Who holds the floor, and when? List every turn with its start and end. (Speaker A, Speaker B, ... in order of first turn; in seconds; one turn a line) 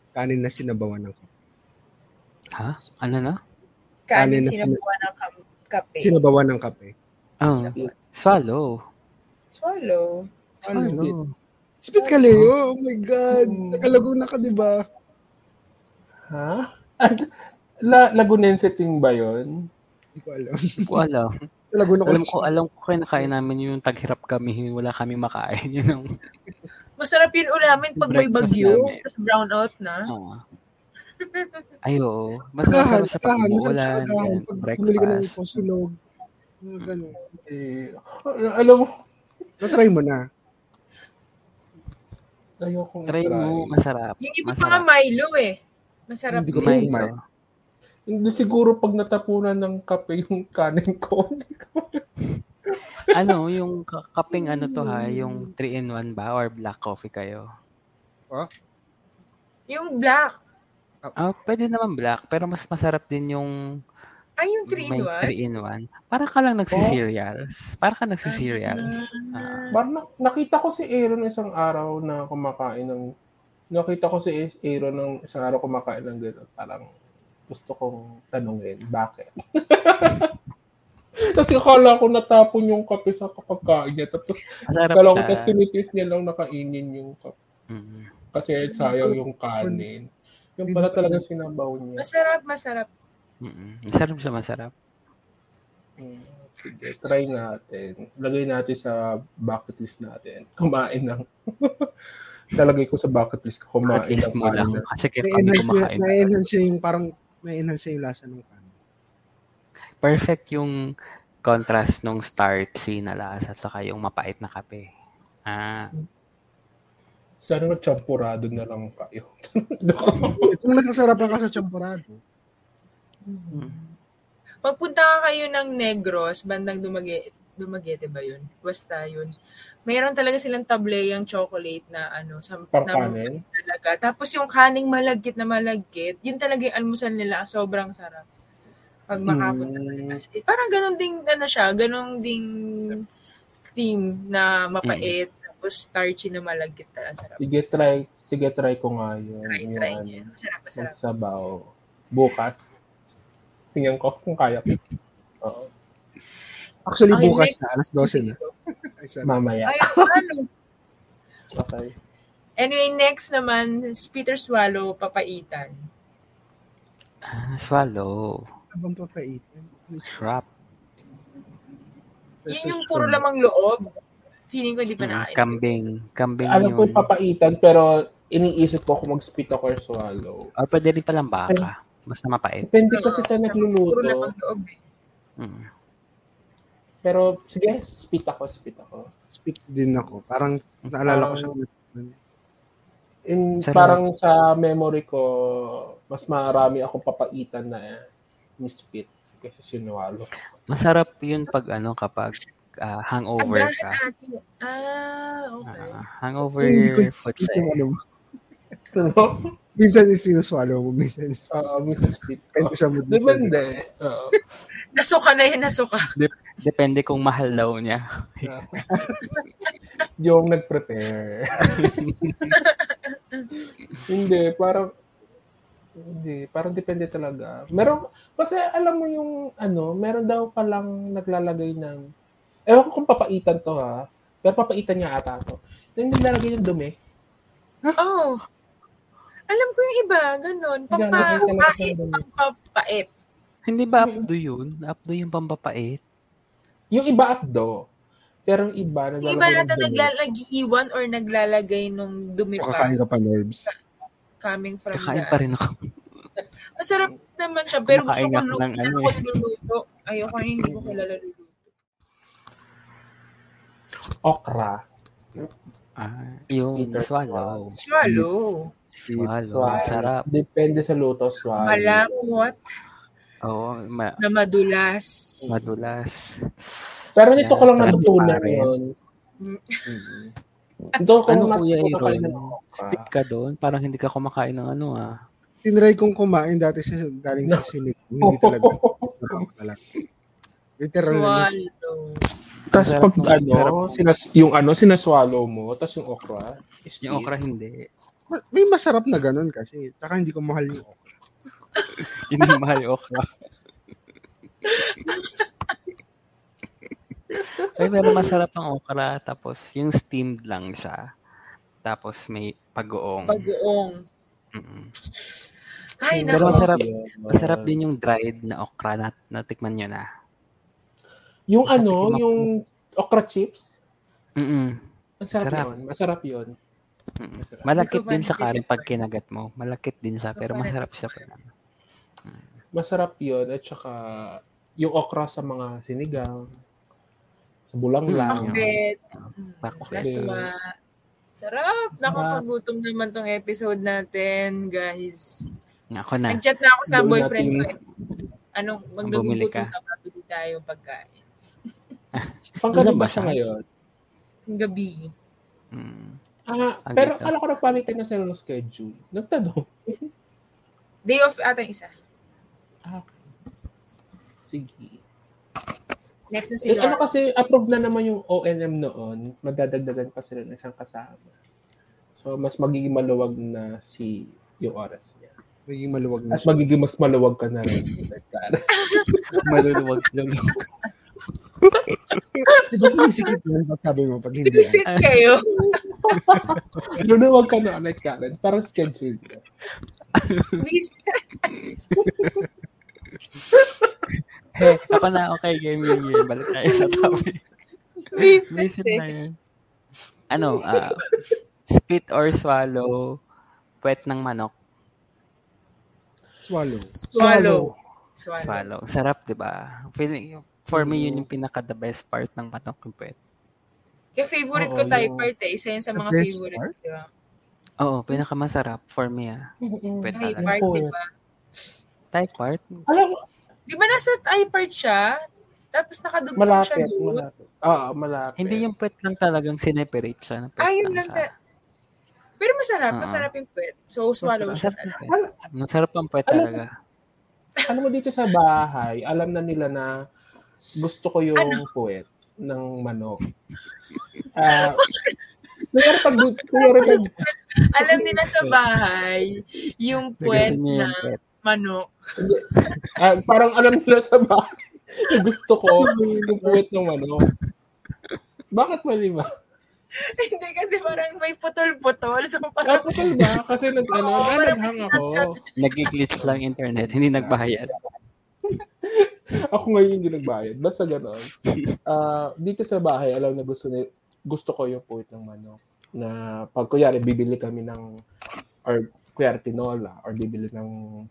Speaker A: 0.1-1.3
Speaker B: 2.5-3.4
Speaker C: 4.1-6.1
Speaker A: 4.1-4.8
Speaker A: 6.0-6.9
Speaker B: 7.4-8.7
Speaker C: 9.5-10.3
Speaker A: 10.6-11.1
Speaker D: 10.7-11.2
Speaker B: 10.7-11.2
Speaker A: 11.8-14.7
Speaker D: 13.3-13.9
Speaker D: 16.3-17.3
Speaker D: 17.8-19.5
Speaker A: 20.1-21.0
Speaker B: 20.9-21.3
Speaker A: 21.7-22.5
Speaker B: 22.1-26.1
Speaker C: 27.0-30.1
Speaker B: 28.0-29.0
Speaker B: 30.1-30.4
Speaker C: 31.2-31.6
Speaker B: 31.9-35.4
Speaker A: 32.7-35.9
Speaker A: 36.6-37.2
Speaker D: 37.3-38.9
Speaker A: 39.6-40.2
Speaker D: 42.6-43.8
Speaker B: 43.1-44.8
Speaker C: 44.2-45.6
Speaker C: 46.1-46.9
Speaker A: 46.3-47.1
Speaker B: 46.5-47.2
Speaker D: 48.1-52.0
Speaker D: 53.0-53.3
Speaker B: 53.1-57.4
Speaker C: 54.8-55.2
Speaker C: 59.7-60.4
Speaker B: 61.2-63.5
Speaker C: 64.4-65.3
Speaker B: 64.7-69.7
Speaker D: 66.7-67.0
Speaker C: 68.2-69.8
Speaker D: 69.7-73.0
Speaker D: 73.7-76.8
Speaker D: 77.5-80.3
Speaker D: 81.3-87.3
Speaker B: 84.7-85.5
Speaker B: 87.7-88.1
Speaker D: 88.3-90.1
Speaker A: 89.0-89.8
Speaker D: 90.6-92.1
Speaker A: 90.7-91.2
Speaker C: 92.0-92.9
Speaker B: 93.4-94.7
Speaker D: 96.0-101.9
Speaker D: 102.5-104.8
Speaker B: 103.9-106.2
Speaker A: 105.2-108.7
Speaker B: 110.0-110.7
Speaker B: 111.4-114.8
Speaker B: 115.5-115.9
Speaker D: 117.4-120.4
Speaker A: 120.4-122.2
Speaker C: 123.3-123.9
Speaker C: 124.6-129.3
Speaker C: 129.8-138.2
Speaker D: 132.7-133.3
Speaker C: 139.1-143.0
Speaker D: 139.3-140.1
Speaker C: 143.8-147.4
Speaker B: 144.8-145.1
Speaker D: 147.4-152.6
Speaker C: 149.5-150.9
Speaker D: 153.7-154.7
Speaker D: 155.4-155.7
Speaker A: 156.8-158.4
Speaker C: 157.1-158.5
Speaker A: 159.0-159.4
Speaker D: 159.2-160.2
Speaker C: 159.6-160.5
Speaker D: 161.5-161.9
Speaker C: 162.6-165.7
Speaker B: 167.3-168.4
Speaker A: 168.7-170.2
Speaker B: 170.0-170.4
Speaker A: 172.4-173.2
Speaker C: 172.5-174.0
Speaker C: 174.5-175.6
Speaker B: 175.0-177.1
Speaker D: 176.4-180.4
Speaker B: 180.6-182.7
Speaker D: 182.7-184.2
Speaker C: 182.9-184.8
Speaker B: 185.4-185.7
Speaker D: 187.0-189.1
Speaker A: 189.3-192.1
Speaker D: 191.1-191.5
Speaker D: 193.3-198.0
Speaker B: 193.6-194.0
Speaker D: 198.6-200.3
Speaker B: 200.7-204.0
Speaker C: 203.4-206.0
Speaker B: 205.7-207.8
Speaker A: 206.5-208.0
Speaker D: 208.9-209.5
Speaker A: 209.8-211.5
Speaker D: 211.5-214.3
Speaker A: 212.5-213.6
Speaker C: 214.9-216.1
Speaker B: 216.1-218.5
Speaker D: 218.4-218.8
Speaker A: 218.9-219.2
Speaker C: 219.1-219.7
Speaker D: 220.2-222.5
Speaker C: 221.6-223.5
Speaker B: 221.9-222.5
Speaker D: 224.1-224.9
Speaker D: 226.0-232.0
Speaker D: 232.7-236.9
Speaker C: 238.0-238.4
Speaker C: 239.5-243.1
Speaker D: 240.9-242.2
Speaker B: 243.7-246.0
Speaker D: 244.0-244.3
Speaker D: 246.9-247.8
Speaker D: 248.5-250.1
Speaker C: 249.2-252.9
Speaker A: 252.5-253.7
Speaker C: 254.4-255.4
Speaker B: 254.9-255.7
Speaker C: 256.4-261.6
Speaker B: 257.9-259.2
Speaker D: 260.6-261.0
Speaker D: 264.2-264.8
Speaker B: 266.0-268.2
Speaker D: 266.8-267.6
Speaker C: 267.8-268.7
Speaker B: 269.0-270.2
Speaker D: 269.5-272.0
Speaker C: 271.6-272.6
Speaker B: 273.4-274.2
Speaker C: 274.2-275.6
Speaker B: 275.5-276.7
Speaker D: 277.2-278.8
Speaker B: 277.4-278.7
Speaker C: 279.4-280.1
Speaker A: 279.9-280.2
Speaker D: 281.0-283.1
Speaker B: 281.3-285.1
Speaker A: 285.6-289.8
Speaker D: 288.2-289.2
Speaker A: 290.8-291.5
Speaker C: 291.0-292.2
Speaker B: 292.7-294.0
Speaker D: 292.7-297.3
Speaker B: 297.0-297.9
Speaker A: 298.3-301.0
Speaker C: 301.8-302.5
Speaker B: 302.1-303.3
Speaker C: 304.6-305.7
Speaker B: 307.6-311.0
Speaker B: 311.8-313.5
Speaker C: 313.3-314.0
Speaker B: 314.5-314.9
Speaker C: 316.0-316.8
Speaker D: 316.1-317.7
Speaker B: 316.3-320.1
Speaker D: 321.5-323.7
Speaker B: 321.7-322.4
Speaker B: 324.4-324.8
Speaker D: 325.2-326.5
Speaker B: 325.3-325.7
Speaker B: 327.2-331.4
Speaker D: 327.4-327.7
Speaker C: 327.7-329.0
Speaker C: 330.4-331.2
Speaker B: 332.3-332.6
Speaker D: 332.8-336.5
Speaker D: 337.7-338.7
Speaker B: 338.1-340.5
Speaker C: 338.3-340.6
Speaker D: 339.8-340.4
Speaker C: 341.4-345.4
Speaker D: 342.0-342.4
Speaker B: 345.9-346.4
Speaker C: 346.3-347.8
Speaker D: 346.9-347.7
Speaker C: 348.6-351.2
Speaker B: 349.0-349.7
Speaker B: 352.1-353.4
Speaker D: 352.6-353.6
Speaker C: 354.5-355.1
Speaker B: 355.7-356.2
Speaker D: 356.5-360.1
Speaker B: 356.9-357.3
Speaker C: 361.1-361.9
Speaker D: 362.9-363.2
Speaker D: 364.5-365.0
Speaker C: 366.3-367.0
Speaker D: 366.6-371.3
Speaker D: 372.2-375.3
Speaker A: 375.7-376.5
Speaker D: 376.3-378.6
Speaker C: 378.8-379.2
Speaker D: 379.3-379.8
Speaker B: 379.4-380.6
Speaker B: 381.9-382.2
Speaker A: 382.7-384.8
Speaker C: 384.5-386.2
Speaker B: 384.9-385.2
Speaker D: 386.1-389.4
Speaker B: 386.2-386.9
Speaker B: 390.2-390.5
Speaker C: 390.6-391.7
Speaker D: 392.0-392.4
Speaker B: 392.1-392.4
Speaker D: 393.5-394.0
Speaker B: 394.5-397.4
Speaker C: 396.7-397.1
Speaker C: 398.1-399.1
Speaker B: 398.1-399.3
Speaker B: 400.3-401.1
Speaker B: 401.7-403.0
Speaker B: 403.8-404.5
Speaker A: 406.4-406.9
Speaker C: 407.1-408.7
Speaker D: 407.1-407.7
Speaker B: 408.4-413.1
Speaker D: 410.7-411.3
Speaker C: 414.1-417.1
Speaker D: 414.5-415.3
Speaker A: 416.0-416.7
Speaker B: 417.8-419.4
Speaker D: 419.6-420.9
Speaker B: 420.0-420.6
Speaker C: 420.1-421.1
Speaker B: 422.1-422.8
Speaker D: 422.9-423.2
Speaker C: 423.7-425.1
Speaker C: 425.7-427.2
Speaker D: 426.4-428.6
Speaker B: 428.4-431.3
Speaker C: 430.6-431.3
Speaker C: 432.4-435.1
Speaker B: 432.9-433.3
Speaker B: 434.2-436.7
Speaker D: 435.1-435.3
Speaker D: 436.3-436.6
Speaker D: 437.6-439.9
Speaker D: 440.8-443.2
Speaker D: 444.3-444.8
Speaker C: 444.5-445.2
Speaker D: 445.7-447.1
Speaker C: 445.8-452.8
Speaker A: 446.9-447.2
Speaker B: 450.2-451.2
Speaker D: 452.2-457.2
Speaker A: 455.8-456.6
Speaker D: 458.5-459.3
Speaker C: 460.0-463.3
Speaker D: 462.6-465.3
Speaker C: 463.9-465.7
Speaker B: 465.6-467.7
Speaker D: 467.1-467.9
Speaker D: 468.8-471.3
Speaker D: 471.9-477.9
Speaker D: 478.6-480.7